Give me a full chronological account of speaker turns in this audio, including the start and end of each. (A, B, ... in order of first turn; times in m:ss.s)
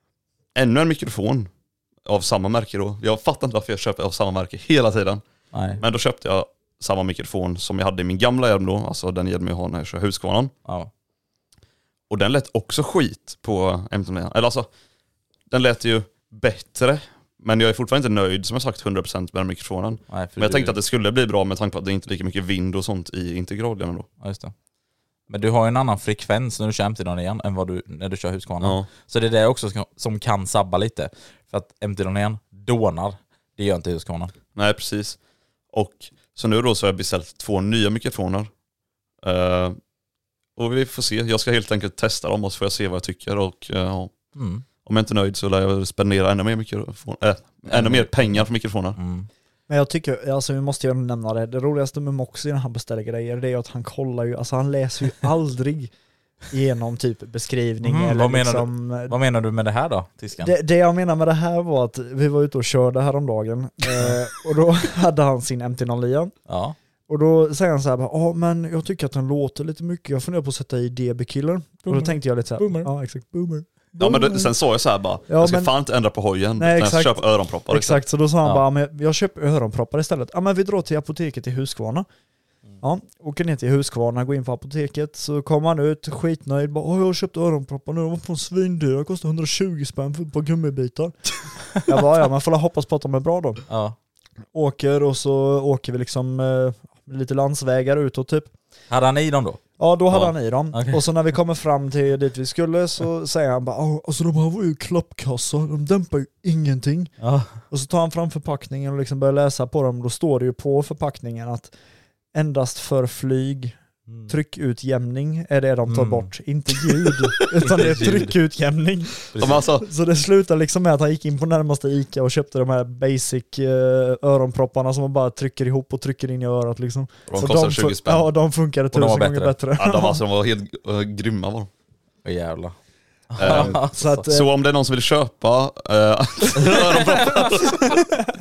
0:00.6-0:01.5 A
0:02.1-0:05.2 A
0:05.5-0:05.8 B
0:05.8-0:10.5 A
0:12.1-0:14.7 A
0:15.5-0:24.1 A
0:20.1-0:20.8 B
0:24.2-0:24.5 B
0:25.3-0:34.3 B
0:28.6-0:28.9 A
0:34.6-0:35.2 A
0:35.7-0:38.5 A
0:39.2-0:39.8 A
0:40.6-0:44.2 A
0:44.4-0:44.6 B
0:44.8-0:49.0 A
0:47.7-0:49.3 B
0:49.7-0:55.9 C
0:56.5-0:59.2 C
0:57.8-1:00.5 B
1:00.4-1:06.3 C
1:06.5-1:06.8 B
1:07.1-1:14.5 C
1:11.9-1:12.9 B
1:14.0-1:18.0 A
1:15.3-1:15.7 C
1:16.6-1:22.1 C
1:22.8-1:31.2 C
1:31.7-1:33.6 C
1:33.7-1:34.0 B
1:34.5-1:38.5 C
1:38.9-1:39.6 B
1:39.8-1:47.1 C
1:40.7-1:41.0 B
1:47.2-1:47.6 B
1:47.7-1:51.7 C
1:52.3-1:53.8 C
1:54.1-1:54.3 B
1:54.3-1:59.1 C
1:55.9-1:56.3 B
1:57.6-1:58.4 B
1:59.3-1:59.6 B
1:59.4-1:59.9 A
1:59.8-2:10.2 C
2:07.3-2:08.3 A
2:08.9-2:09.6 B
2:09.8-2:11.7 A
2:12.2-2:12.8 B
2:13.3-2:14.2 B
2:13.4-2:18.0 A
2:13.4-2:14.5 C
2:17.0-2:17.5 B